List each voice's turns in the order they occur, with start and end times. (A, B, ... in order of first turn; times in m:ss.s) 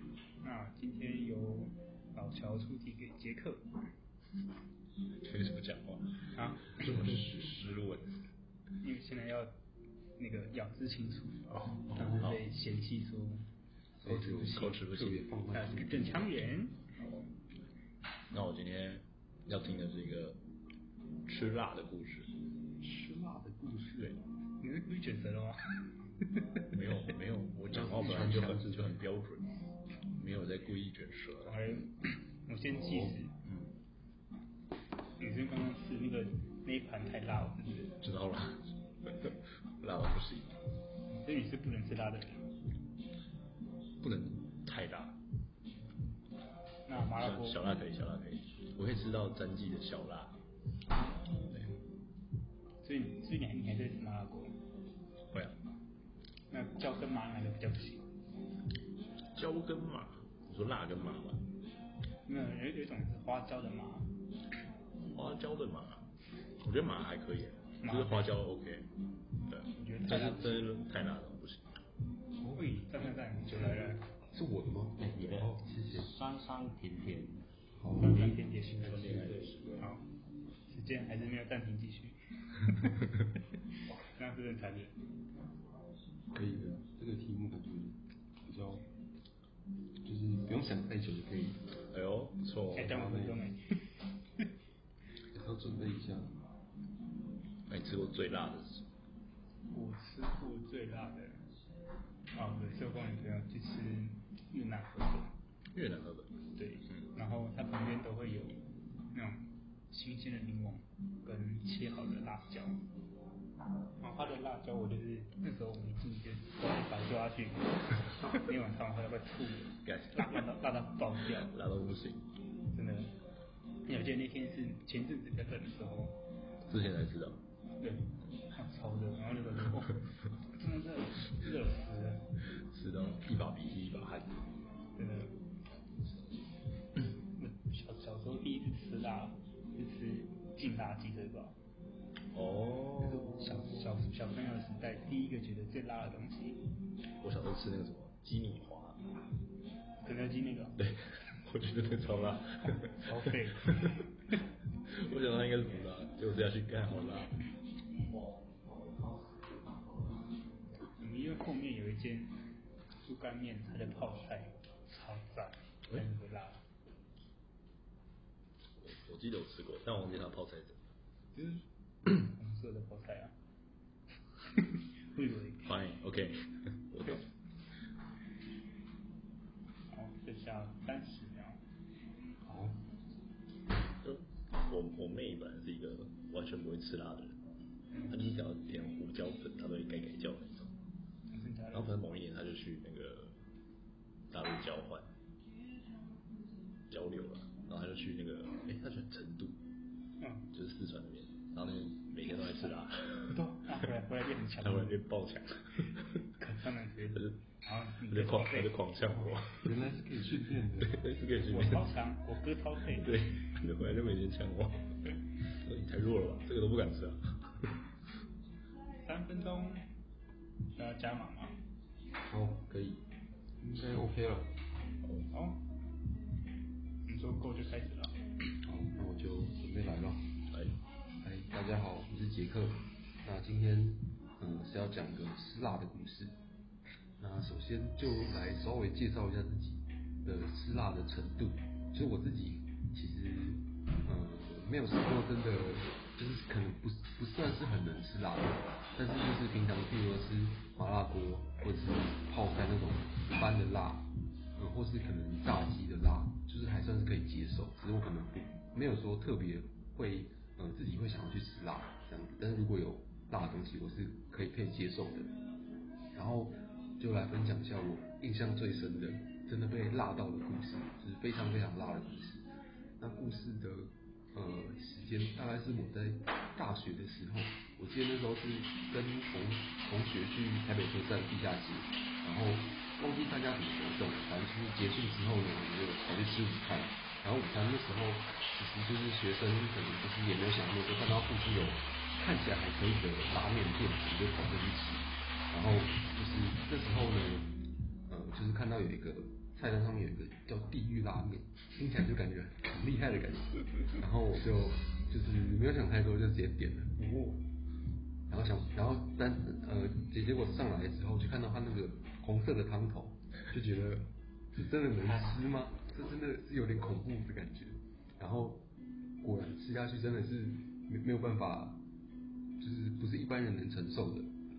0:00.4-0:03.6 A
0:05.2-0:08.1 B
0:06.3-0:07.1 A
0:08.8-0:09.5 A
0:10.2-0:13.4 A
0:11.5-0:12.4 B
0:14.0-0:16.3 C
0:14.0-0:15.3 B
0:15.5-0:16.8 A
0:17.0-0:17.3 B
0:18.3-0:20.4 B
0:21.2-0:22.3 B
0:22.8-0:24.2 C
0:24.6-0:25.6 A
0:26.2-0:26.6 A
0:26.7-0:29.5 B
0:27.7-0:29.0 C
0:30.1-0:31.6 B
0:31.4-0:33.3 A
0:33.4-0:33.7 B
0:35.2-0:38.0 A
0:38.0-0:40.5 B
0:41.1-0:42.5 A
0:44.0-0:45.2 B
0:46.9-0:47.6 A
0:47.2-0:50.4 B
0:51.4-0:51.8 B
0:52.8-0:54.5 A
0:55.3-0:55.6 B
0:56.5-0:58.1 A
0:59.3-1:01.5 B
1:02.2-1:04.1 A
1:05.1-1:06.1 B
1:06.6-1:08.9 B
1:07.8-1:08.4 A
1:09.5-1:11.6 B
1:09.8-1:10.7 A
1:12.4-1:12.8 C
1:12.6-1:14.0 A
1:14.3-1:16.1 C
1:15.0-1:17.5 B
1:17.7-1:18.4 C
1:18.0-1:20.1 A
1:18.1-1:19.9 B
1:18.9-1:19.3 C
1:20.7-1:23.1 A
1:24.0-1:24.9 A
1:26.3-1:28.8 C
1:30.0-1:31.6 C
1:31.9-1:33.0 B
1:32.7-1:33.6 A
1:32.8-1:33.4 C
1:35.3-1:36.4 C
1:37.7-1:38.8 B
1:39.7-1:41.4 A
1:42.3-1:45.4 A
1:45.7-1:47.1 B
1:46.5-1:52.8 A
1:54.0-2:01.5 A
1:59.8-2:00.5 B
2:01.3-2:02.2 B
2:02.7-2:03.2 A
2:03.8-2:06.2 A
2:06.6-2:07.4 B
2:07.8-2:12.3 A
2:12.7-2:14.4 B
2:15.0-2:15.4 A
2:17.3-2:21.6 A
2:22.3-2:23.4 B
2:23.1-2:26.6 A
2:23.3-2:23.6 C
2:27.2-2:29.0 B
2:30.0-2:30.8 A
2:30.8-2:34.0 B
2:33.0-2:34.0 A
2:34.9-2:37.4 B
2:41.0-2:42.4 A
2:43.0-2:46.6 A
2:48.8-2:50.8 B
2:51.3-2:53.4 A
2:54.5-2:55.6 A
2:55.6-2:57.2 B
2:59.9-3:01.6 A
3:02.4-3:02.8 C
3:04.0-3:07.4 B
3:08.1-3:10.8 B
3:11.3-3:12.0 A
3:11.7-3:13.4 B
3:14.3-3:15.1 B
3:16.9-3:19.6 B
3:20.2-3:20.5 A
3:20.5-3:23.4 B
3:23.3-3:25.0 A
3:24.6-3:26.2 B
3:26.4-3:28.8 A
3:27.1-3:27.4 B
3:28.1-3:29.8 B
3:29.5-3:31.0 C
3:30.8-3:31.9 B
3:31.4-3:33.2 A
3:32.8-3:37.7 B
3:39.0-3:39.8 A
3:40.7-3:41.6 A
3:42.2-3:43.0 C
3:43.6-3:44.6 C
3:45.0-3:45.3 B
3:45.3-3:45.6 A
3:47.0-3:48.1 A
3:48.6-3:50.4 C
3:50.5-3:50.8 B
3:51.2-3:56.4 C
3:57.2-4:25.3 C
4:26.1-4:32.5 C
4:33.0-4:57.5 C
4:58.1-5:07.4 C
5:08.3-5:18.6 C
5:19.2-5:21.8 C
5:22.6-5:24.3 C